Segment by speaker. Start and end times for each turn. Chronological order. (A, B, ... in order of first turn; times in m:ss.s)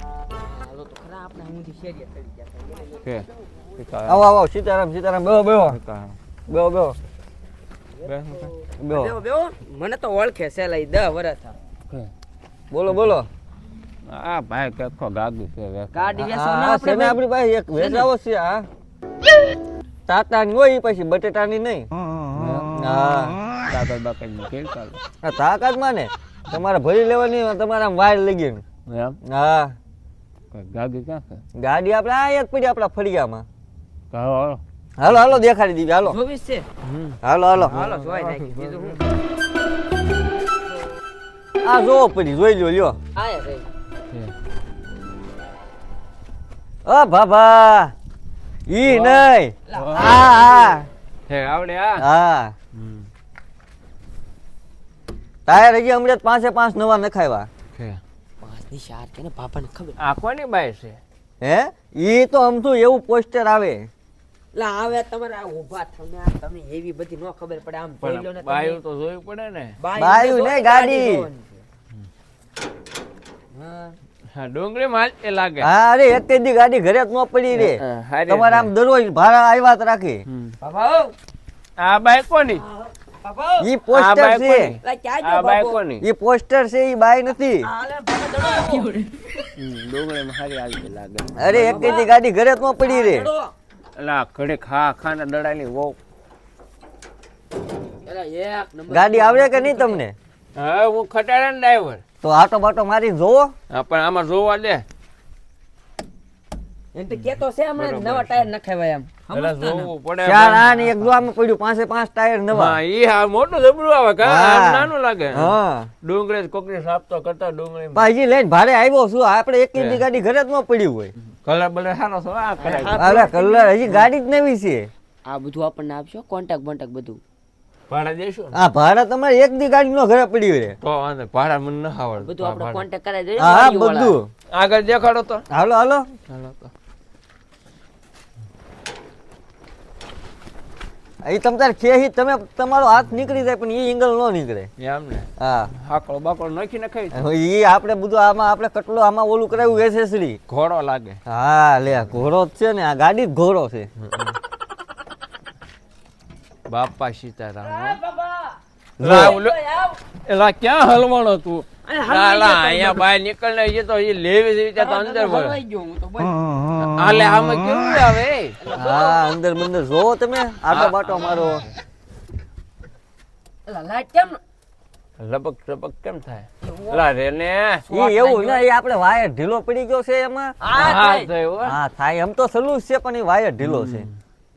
0:00.3-0:03.0 A
0:03.0-0:04.3 B
0:04.1-0:05.8 C
0:05.7-0:06.2 B
0:06.5-0:07.0 C
0:08.0-0:08.5 B
0:08.8-0:09.1 C
0:08.9-0:11.6 A
0:12.7-0:13.3 C
0:14.1-0:16.1 B
0:15.9-0:17.2 A
0:16.2-0:18.7 C
0:17.8-0:18.1 A
0:20.1-0:21.9 C
0:22.3-0:22.8 B
0:22.8-0:23.4 C
0:23.7-0:25.0 B
0:25.2-0:28.6 C
0:28.9-0:29.2 B
0:29.2-0:29.8 C
0:30.5-0:31.4 B
0:31.6-0:33.5 C
0:34.1-0:34.6 B
0:35.0-0:36.2 C
0:36.0-0:36.7 A
0:36.8-0:39.0 B
0:37.2-0:37.8 C
0:37.7-0:39.0 A
0:41.6-0:43.0 C
0:43.2-0:43.7 A
0:46.8-0:47.9 C
0:48.7-0:50.9 C
0:48.8-0:50.2 B
0:49.7-0:50.8 A
0:51.3-0:52.0 B
0:52.0-0:52.5 C
0:52.7-0:53.1 B
0:55.5-0:57.5 C
0:57.7-0:58.0 B
0:58.4-1:00.0 A
1:00.0-1:01.0 B
1:01.4-1:03.9 C
1:04.5-1:08.8 A
1:08.0-1:09.8 B
1:09.8-1:11.6 A
1:10.0-1:11.3 C
1:13.5-1:14.0 A
1:14.3-1:15.7 B
1:15.6-1:20.2 C
1:17.5-1:18.7 B
1:20.3-1:20.6 B
1:20.6-1:21.1 A
1:21.8-1:22.6 B
1:22.6-1:23.7 A
1:23.6-1:24.7 C
1:23.9-1:26.0 B
1:24.8-1:25.8 A
1:26.0-1:27.7 C
1:27.6-1:29.1 A
1:29.6-1:32.0 B
1:31.4-1:33.3 C
1:31.5-1:32.1 A
1:32.8-1:33.5 A
1:34.0-1:36.0 B
1:38.0-1:40.0 A
1:38.9-1:40.2 C
1:40.6-1:42.0 B
1:42.2-1:43.5 C
1:43.7-1:44.8 B
1:46.9-1:49.9 A
1:47.8-1:48.4 B
1:49.3-1:51.3 B
1:50.2-1:52.8 C
1:52.5-1:58.1 B
1:54.2-1:55.9 C
1:58.0-2:01.1 C
1:59.8-2:00.0 B
2:01.2-2:03.1 B
2:02.6-2:03.7 A
2:03.0-2:04.9 C
2:05.3-2:07.2 A
2:07.9-2:08.6 B
2:08.5-2:10.8 C
2:10.8-2:12.8 B
2:12.2-2:14.2 A
2:13.4-2:14.3 C
2:14.5-2:15.4 B
2:15.5-2:16.1 C
2:16.3-2:16.7 B
2:21.2-2:24.7 C
2:24.8-2:27.2 B
2:25.4-2:25.7 C
2:27.1-2:30.4 C
2:30.5-2:31.2 B
2:31.3-2:33.9 C
2:34.0-2:34.4 B
2:36.7-2:38.0 B
2:37.6-2:40.0 A
2:39.0-2:39.4 C
2:39.0-2:39.6 B
2:40.2-2:45.6 B
2:41.8-2:43.1 A
2:44.8-2:46.4 A
2:46.8-2:48.6 B
2:48.6-2:49.2 A
2:48.7-2:51.6 C
2:50.7-2:51.6 B
2:53.7-2:54.4 A
2:55.2-2:57.9 B
2:56.6-2:57.0 A
2:57.9-2:58.6 A
2:57.9-3:00.9 C
3:00.6-3:01.3 A
3:00.8-3:01.8 B
3:01.6-3:04.1 C
3:03.6-3:04.2 B